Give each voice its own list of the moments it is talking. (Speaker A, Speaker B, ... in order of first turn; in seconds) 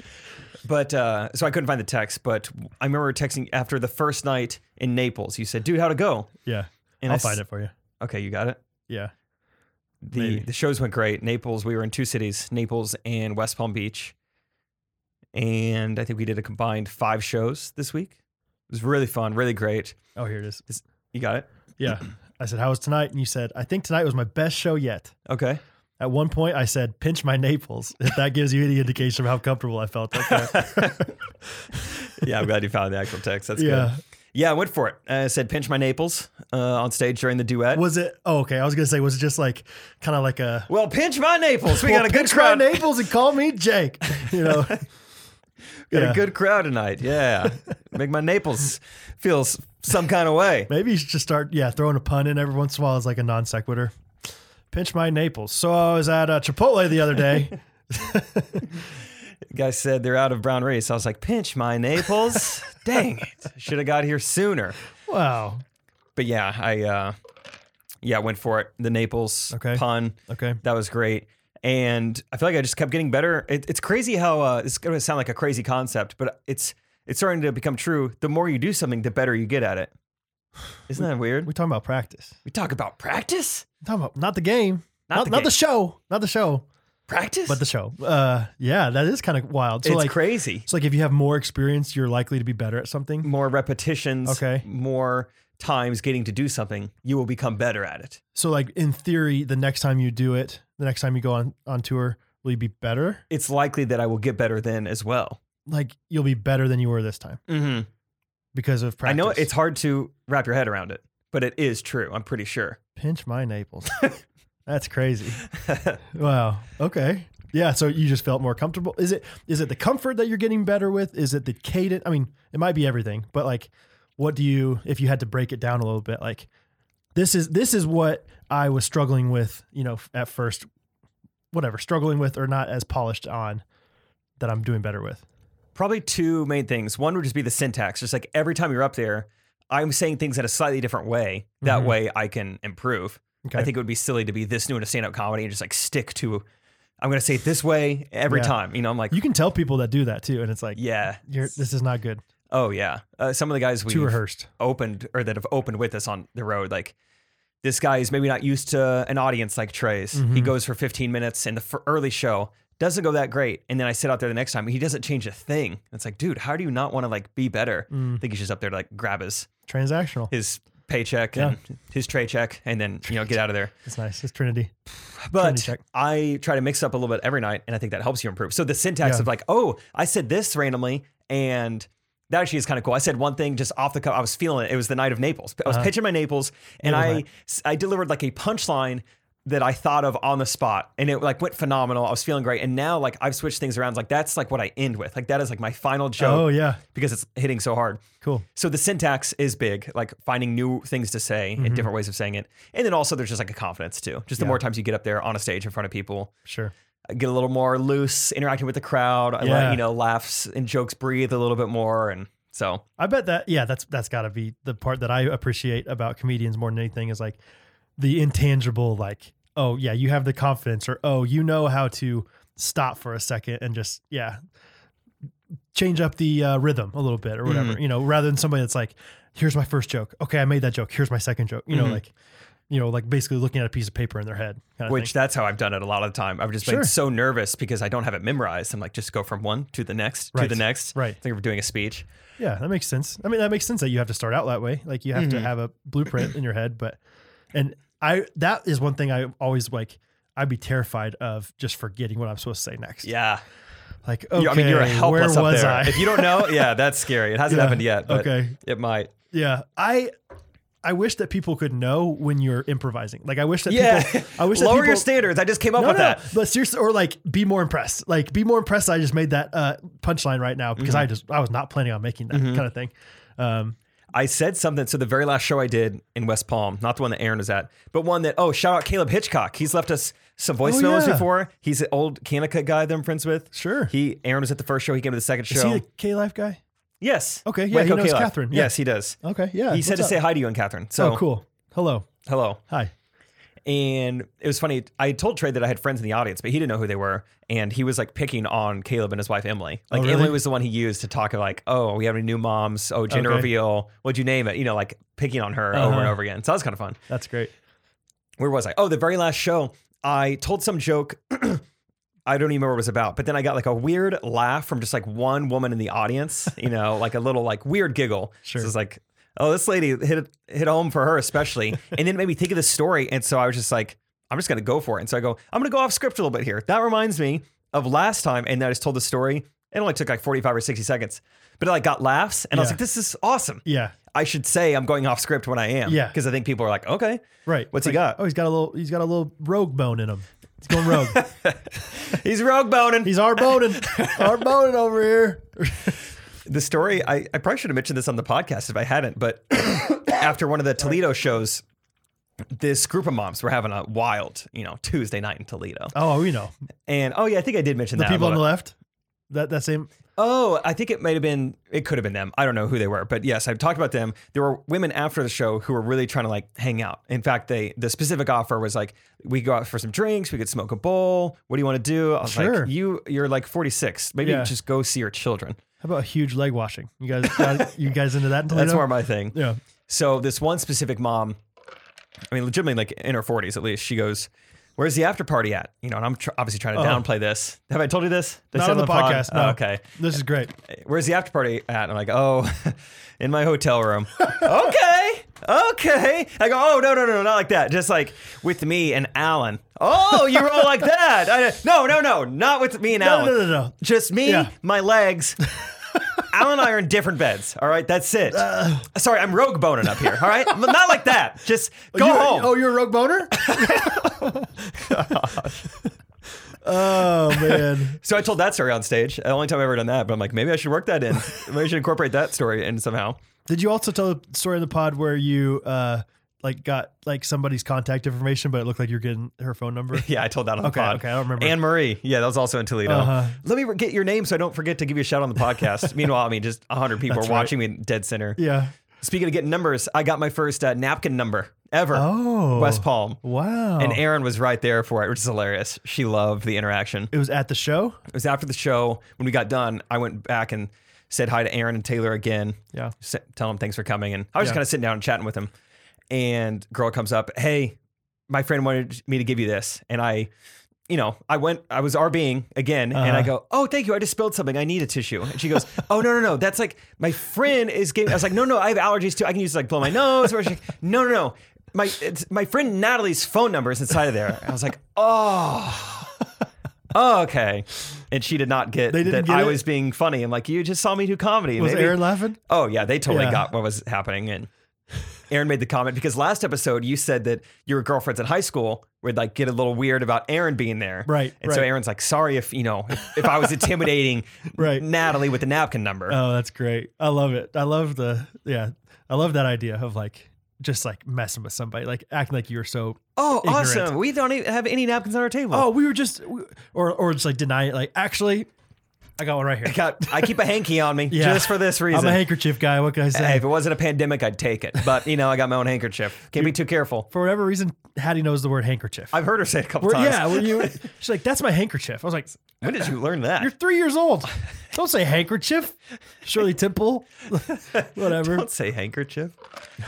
Speaker A: 0.6-6.3, 7.0-7.4, 8.0-8.6, 10.0-14.1, 15.3-18.2, 18.7-20.0, 20.7-21.5, 25.3-25.6, 30.2-31.1, 32.1-37.8, 40.7-42.9, 44.2-44.7, 45.9-50.7, 59.5-64.8, 66.2-67.2, 68.0-79.9, 80.9-81.5, 82.5-83.7, 85.1-85.5, 87.1-87.6, 89.8-90.7, 93.2-98.2, 103.3-105.4, 107.5-107.9, 109.0-112.8, 115.5-116.0, 135.7-146.4, 147.0-149.2, 150.7-151.4, 152.5-156.9, 157.6-169.5, 170.3-173.7, 175.2-198.0, 198.5-206.3, 207.1-212.8, 227.4-227.8, 231.7-232.0, 234.9-242.1, 245.1-245.5, 253.0-253.4, 254.3-259.1, 263.7-266.3, 270.8-271.1, 272.3-272.6, 274.1-285.8, 287.0-289.2, 289.7-291.2, 292.2-292.6, 293.6-307.0, 308.4-311.6, 312.2-338.2, 340.7-344.4, 346.4-351.6, 352.5-355.9, 356.9-358.4, 360.1-375.6, 377.2-377.7, 378.5-381.4, 382.3-390.0, 390.7-405.4, 406.2-412.6, 413.3-414.3, 414.8-415.7, 417.0-423.2, 429.9-438.4, 439.0-443.2, 443.8-447.1, 448.1-455.5, 456.1-457.8, 458.3-460.3, 460.9-476.1, 476.9-484.5, 485.3-496.2, 503.2-505.7, 509.6-512.3, 513.1-517.1, 519.1-520.8, 522.6-523.5, 527.5-529.4
Speaker B: 6.4-7.7, 10.1-10.5, 20.1-20.6, 21.8-25.1, 26.0-31.1, 33.5-34.0, 37.7-40.7, 41.7-44.9, 45.9-46.2, 50.7-53.9, 54.7-58.7, 65.1-65.6, 69.5-70.6, 81.0-82.3, 83.8-86.6, 87.5-93.3, 94.2-94.6, 98.3-103.2, 105.7-107.4, 108.5-109.5, 113.0-114.0, 114.7-115.4, 116.1-126.5, 127.1-130.7, 131.5-133.6, 134.4-135.2, 141.6-141.9, 143.4-143.7, 148.3-148.5, 149.1-152.2, 153.9-154.5, 160.1-160.5, 167.9-168.2, 169.7-170.3, 173.8-174.7, 175.3-175.8, 179.0-179.2, 185.7-185.9, 186.8-187.2, 196.2-196.8, 201.6-201.9, 206.4-206.7, 209.4-209.8, 213.0-217.4, 218.0-224.4, 225.7-232.1, 232.7-235.1, 236.6-236.9, 240.3-241.2, 242.4-247.0, 247.5-253.1, 254.0-256.7, 257.5-258.6, 259.3-260.1, 260.8-265.1, 265.8-273.8, 280.6-281.3, 283.5-283.9, 285.5-286.6, 287.4-290.2, 291.0-292.1, 299.9-300.4, 303.1-303.5, 305.7-306.2, 307.1-307.5, 318.4-318.7, 332.5-332.8, 333.6-333.9, 335.9-336.1, 337.4-341.2, 343.0-346.0, 355.9-356.5, 357.9-358.7, 359.3-359.9, 372.2-372.7, 374.2-374.5, 375.8-379.6, 386.7-387.0, 388.5-390.5, 402.9-404.5, 408.3-408.9, 411.9-414.8, 416.6-418.0, 423.5-430.1, 430.6-431.6, 432.9-433.4, 437.1-437.5, 438.4-438.7, 441.9-444.0, 447.1-448.0, 462.9-463.3, 478.9-479.6, 481.6-482.4, 483.1-483.4, 491.1-491.7, 494.5-494.9, 496.1-503.9, 505.5-508.5, 509.2-510.3, 511.1-513.5, 517.1-519.1, 519.8-522.4, 523.4-528.5